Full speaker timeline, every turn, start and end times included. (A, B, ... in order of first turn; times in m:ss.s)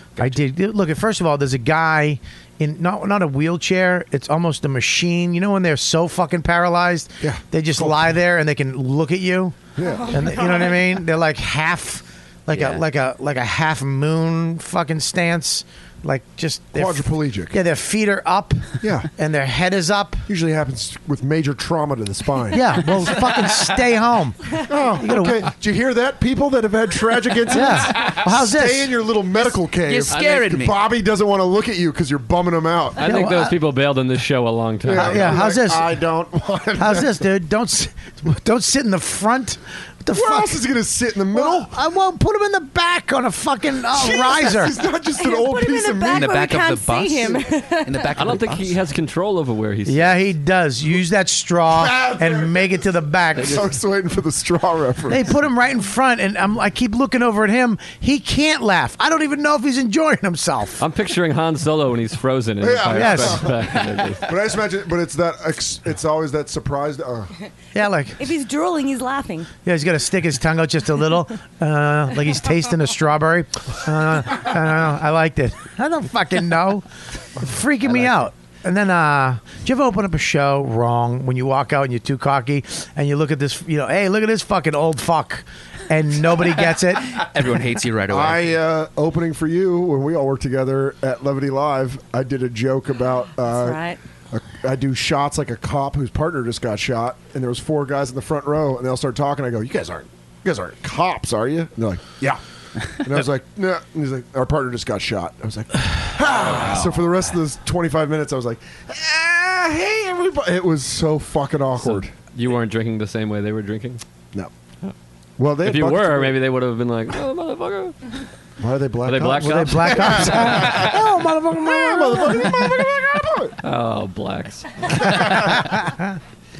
0:00.2-0:09.6 A
0:07.2-0:08.1 B
0:09.8-0:10.4 B
0:09.8-0:10.9 C
0:10.1-0:20.2 A
0:12.5-0:12.8 D
0:16.7-0:17.6 B
0:18.8-0:19.1 B
0:20.3-0:23.0 B
0:22.5-0:25.5 A
0:24.6-0:33.0 B
0:27.5-0:29.0 A
0:29.8-0:30.7 D
0:33.0-0:35.4 E
0:33.0-0:33.6 A
0:34.9-0:37.2 B
0:34.9-0:35.8 A
0:36.8-0:40.6 A
0:40.1-0:41.7 B
0:41.3-0:44.8 A
0:43.9-0:46.4 B
0:45.2-0:48.1 C
0:46.1-0:48.8 D
0:48.1-0:50.2 E
0:49.8-0:53.6 A
0:51.7-0:52.7 B
0:53.4-0:55.2 B
0:55.1-1:00.8 A
1:00.8-1:04.3 E
1:02.6-1:07.3 B
1:02.9-1:03.5 A
1:07.7-1:08.3 A
1:08.2-1:09.5 C
1:09.6-1:16.8 A
1:17.4-1:27.2 A
1:27.1-1:28.5 D
1:28.1-1:42.4 B
1:33.5-1:34.0 C
1:42.9-1:52.1 B
1:46.4-1:47.0 D
1:51.8-1:54.0 E
1:55.4-1:56.4 B
1:55.6-1:58.0 E
1:58.6-2:01.0 B
1:59.0-2:00.9 E
1:59.4-2:02.6 A
2:01.6-2:03.6 B
2:03.6-2:05.4 E
2:05.2-2:06.2 A